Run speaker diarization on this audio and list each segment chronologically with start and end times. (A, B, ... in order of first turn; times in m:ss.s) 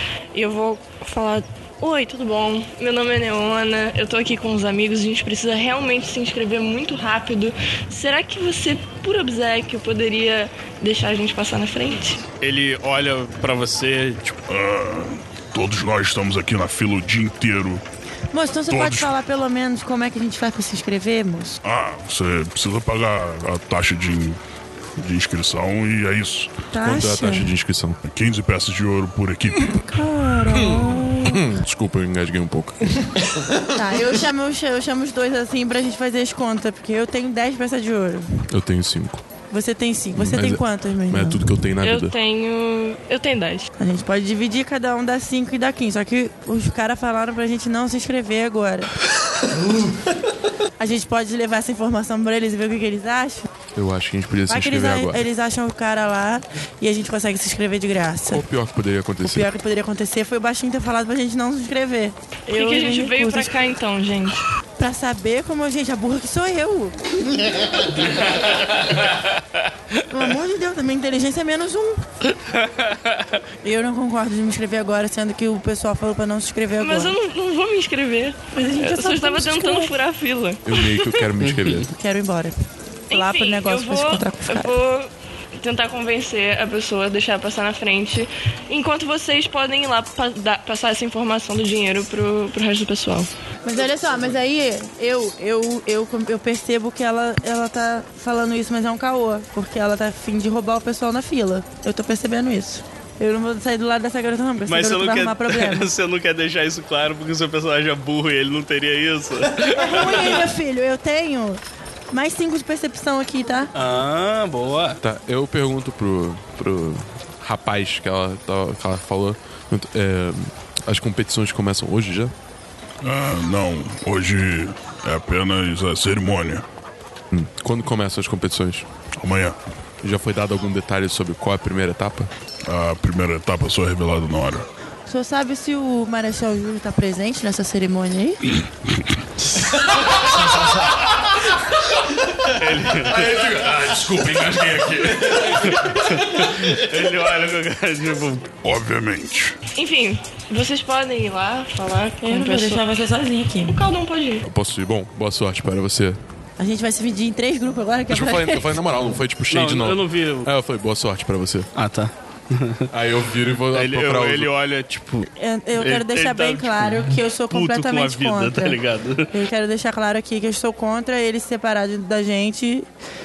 0:00.3-0:12.2 A
0:12.4-0:14.4 B
0:14.5-0:17.8 C
0:18.3-0:21.6 D
0:18.7-0:19.1 C
0:21.6-0:24.4 C
0:25.0-0:26.5 C
0:26.7-0:27.5 D
0:26.8-0:28.0 E
0:28.0-0:29.8 C
0:29.9-0:31.4 D
0:30.7-0:33.0 E
0:33.7-0:38.4 D
0:38.5-0:39.2 E
0:39.5-0:41.5 D
0:40.2-0:42.1 E
0:41.8-0:43.7 A
0:43.8-0:48.9 D
0:50.8-0:53.5 D
0:53.7-0:55.2 E
0:54.5-0:58.4 D
0:58.3-0:59.5 E
0:59.2-1:03.5 D
1:02.5-1:04.4 A
1:04.8-1:07.7 D
1:10.1-1:12.0 D
1:12.5-1:13.2 B
1:13.6-1:17.1 D
1:16.8-1:21.2 A
1:18.5-1:19.9 D
1:20.6-1:21.9 E
1:21.4-1:21.8 B
1:22.0-1:22.5 D
1:23.1-1:33.3 A
1:23.1-1:24.7 D
1:33.6-1:45.9 D
1:44.7-1:50.4 B
1:49.7-1:53.7 D
1:53.7-1:55.0 B
1:55.0-2:02.3 E
2:03.0-2:06.6 C
2:07.3-2:08.9 E
2:09.2-2:09.6 C
2:10.0-2:12.3 E
2:12.6-2:14.6 C
2:15.1-2:18.4 D
2:22.6-2:23.3 B
2:23.0-2:25.9 E
2:25.6-2:28.5 B
2:28.6-2:29.6 C
2:29.8-2:32.9 A
2:32.2-2:33.8 D
2:33.6-2:34.4 A
2:34.4-2:36.2 E
2:36.6-2:38.7 D
2:38.1-2:41.7 E
2:39.5-2:40.5 B
2:41.7-2:42.9 B
2:42.9-2:44.5 E
2:43.7-2:49.3 B
2:45.4-2:48.8 D
2:49.3-2:52.9 D